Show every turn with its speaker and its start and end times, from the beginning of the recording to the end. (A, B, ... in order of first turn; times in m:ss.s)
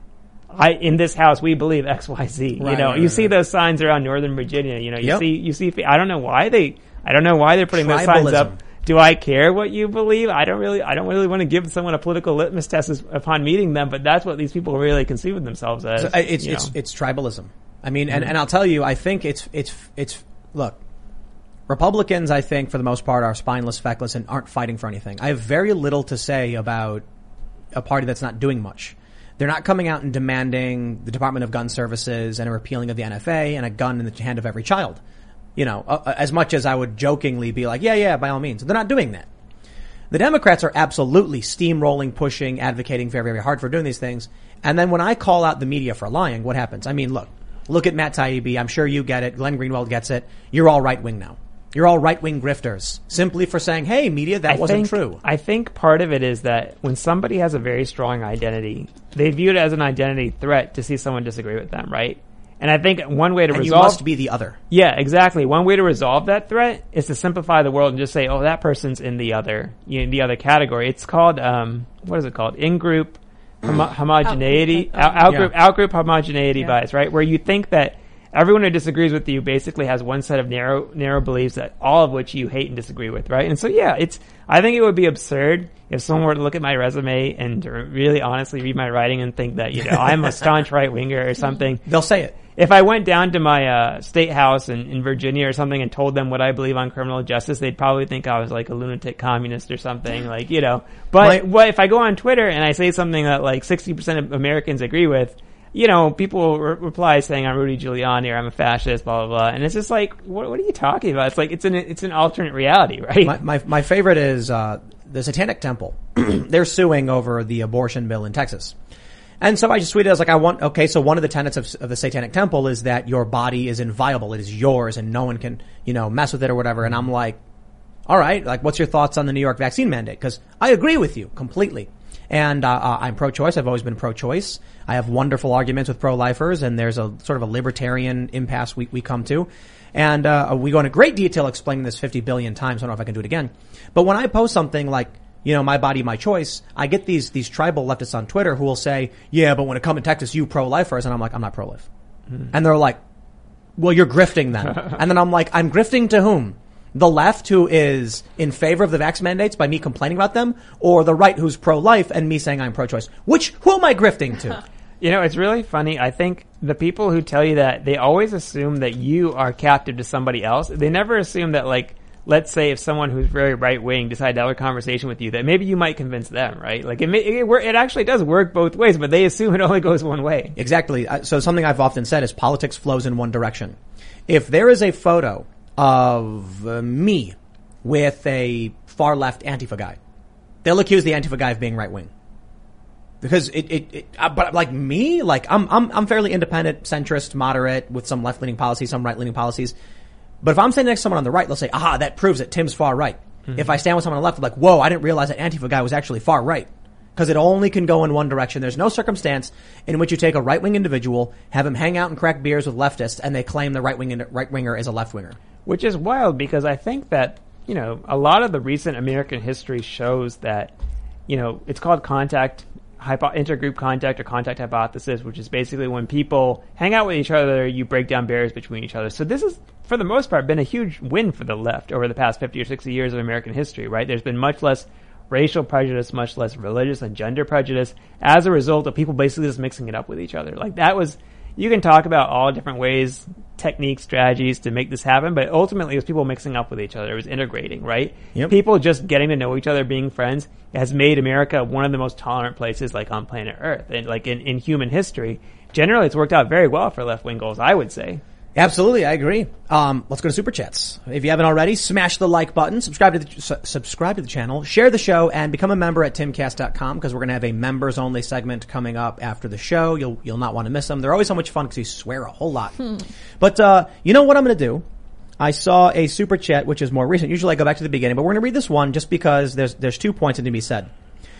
0:00.5-0:16.7 A
0:02.6-0:03.3 B
0:07.7-0:08.6 B
0:16.0-0:20.8 B
0:21.7-0:27.0 B
0:27.7-0:35.0 B
0:35.6-0:39.3 B
0:40.1-0:55.2 B
0:54.5-1:04.0 A
1:03.5-1:04.6 B
1:04.7-1:31.8 A
1:31.9-1:32.3 B
1:32.5-1:53.4 A
1:53.2-1:58.7 B
1:59.4-2:07.4 B
2:08.1-2:31.9 B
2:32.5-2:33.0 B
2:33.8-2:44.6 B
2:45.0-3:00.6 A
3:00.6-3:03.8 B
3:04.3-3:10.0 B
3:10.6-3:12.1 B
3:13.2-3:19.7 B
3:20.4-3:35.4 B
3:35.6-3:40.7 A
3:41.3-4:18.2 A
4:18.6-4:32.8 B
4:33.4-4:34.8 B
4:35.4-4:40.9 B